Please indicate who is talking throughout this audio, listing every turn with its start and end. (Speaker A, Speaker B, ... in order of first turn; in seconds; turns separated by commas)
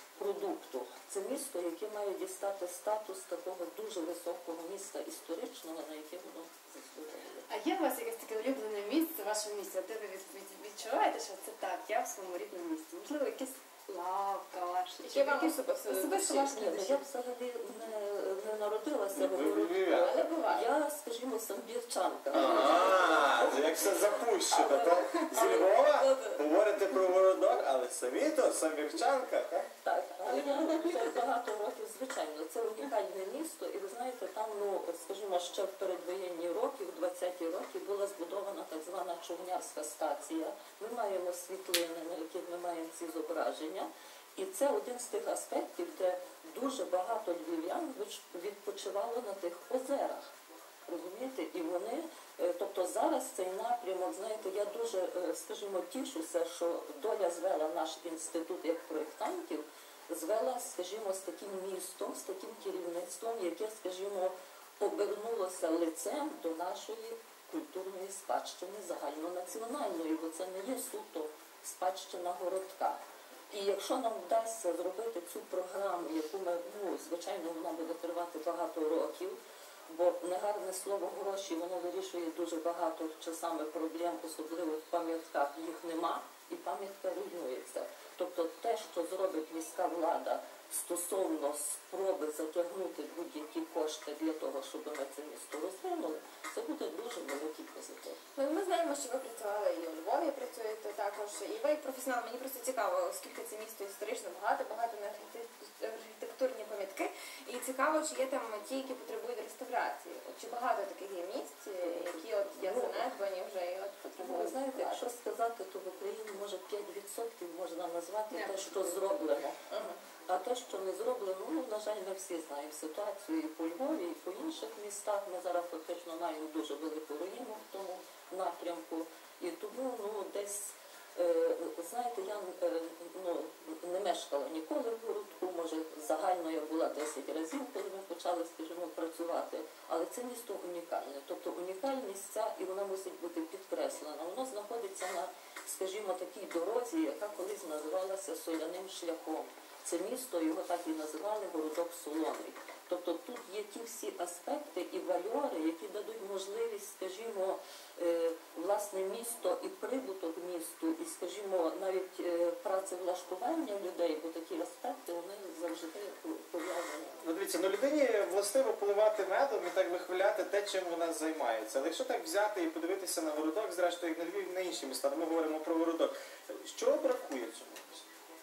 Speaker A: 0.2-7.5, Speaker B: 7.5-16.6, Speaker C: 15.0-16.9, Speaker A: 16.0-26.4, Speaker D: 19.2-20.1, Speaker C: 20.1-20.6, Speaker D: 22.3-29.7, Speaker A: 29.8-50.3, Speaker A: 50.9-98.2, Speaker C: 98.3-115.0, Speaker A: 111.8-113.0, Speaker A: 114.2-119.6, Speaker B: 118.3-118.6, Speaker C: 119.7-120.0, Speaker A: 120.3-167.2, Speaker D: 167.2-178.0